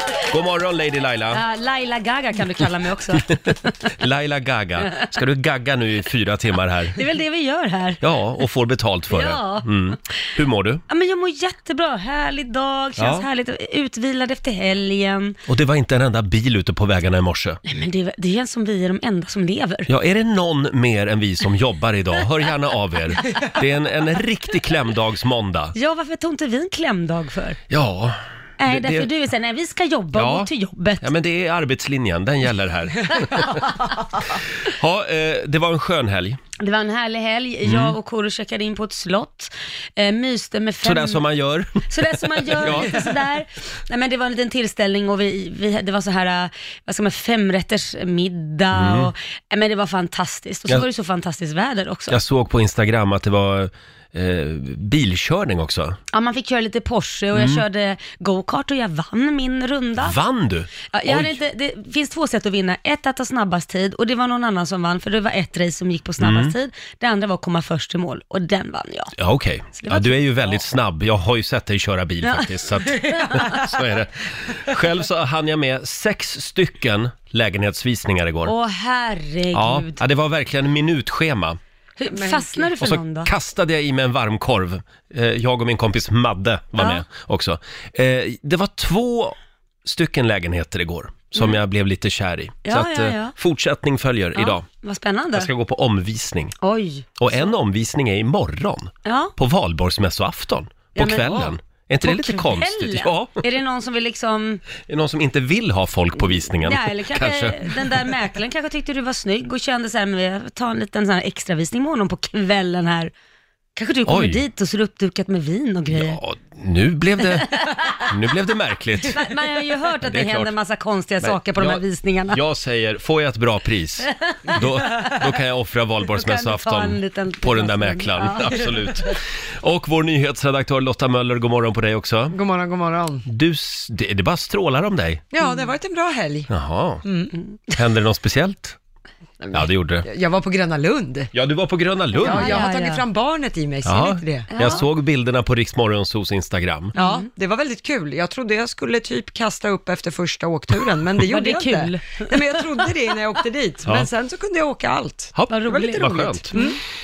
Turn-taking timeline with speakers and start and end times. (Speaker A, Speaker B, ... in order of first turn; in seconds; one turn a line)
Speaker A: 0.1-1.4
Speaker B: 1.3-3.8
Speaker A: 3.2-7.0
Speaker B: 7.0-8.0
Speaker A: 8.0-10.8
Speaker B: 9.1-9.7
Speaker B: 10.9-15.4
Speaker A: 13.0-13.2
Speaker A: 15.5-17.6
Speaker B: 17.6-19.9
Speaker A: 19.9-25.7
Speaker B: 25.7-27.6
Speaker A: 27.7-29.1
Speaker B: 28.6-31.1
Speaker A: 30.1-30.5
Speaker A: 31.0-33.7
Speaker B: 33.2-34.2
Speaker A: 34.6-36.4
Speaker B: 36.6-41.2
Speaker A: 37.6-37.9
Speaker A: 40.8-41.8
Speaker B: 41.9-52.2
Speaker A: 42.5-43.1
Speaker A: 48.7-49.1
Speaker A: 52.1-56.0
Speaker B: 56.1-60.1
Speaker A: 57.3-57.6
Speaker A: 60.0-61.4
Speaker B: 60.9-69.1
Speaker A: 66.2-66.5
Speaker A: 69.2-78.5
Speaker B: 69.8-70.6
Speaker B: 72.2-73.7
Speaker B: 78.4-80.0
Speaker A: 79.5-81.6
Speaker B: 82.0-83.3
Speaker C: 82.1-82.7
Speaker A: 82.8-94.6
Speaker B: 86.8-87.0
Speaker B: 92.6-93.3
Speaker B: 94.3-95.5
Speaker A: 95.3-96.6
Speaker B: 96.6-97.5
Speaker A: 97.2-103.4
Speaker B: 99.0-99.3
Speaker B: 101.0-104.6
Speaker A: 104.9-107.9
Speaker B: 106.2-113.1
Speaker B: 113.8-116.2
Speaker A: 114.1-114.4
Speaker A: 115.9-119.3
Speaker B: 117.4-118.1
Speaker B: 119.0-122.4
Speaker A: 120.0-120.5
Speaker A: 121.2-132.4
Speaker B: 124.3-125.2
Speaker B: 126.1-128.9
Speaker C: 132.3-133.2
Speaker A: 133.2-135.2
Speaker C: 135.3-136.5
Speaker B: 135.4-135.7
Speaker A: 136.5-137.0
Speaker C: 137.1-137.3
Speaker A: 137.7-138.8
Speaker C: 139.4-141.3
Speaker A: 139.5-140.1
Speaker A: 141.3-142.6
Speaker C: 142.2-144.5
Speaker B: 142.2-143.0
Speaker A: 143.8-146.9
Speaker B: 144.5-144.8
Speaker B: 146.9-147.3
Speaker C: 146.9-155.3
Speaker B: 151.2-152.3
Speaker A: 155.3-156.5
Speaker B: 155.5-156.8
Speaker C: 156.5-156.8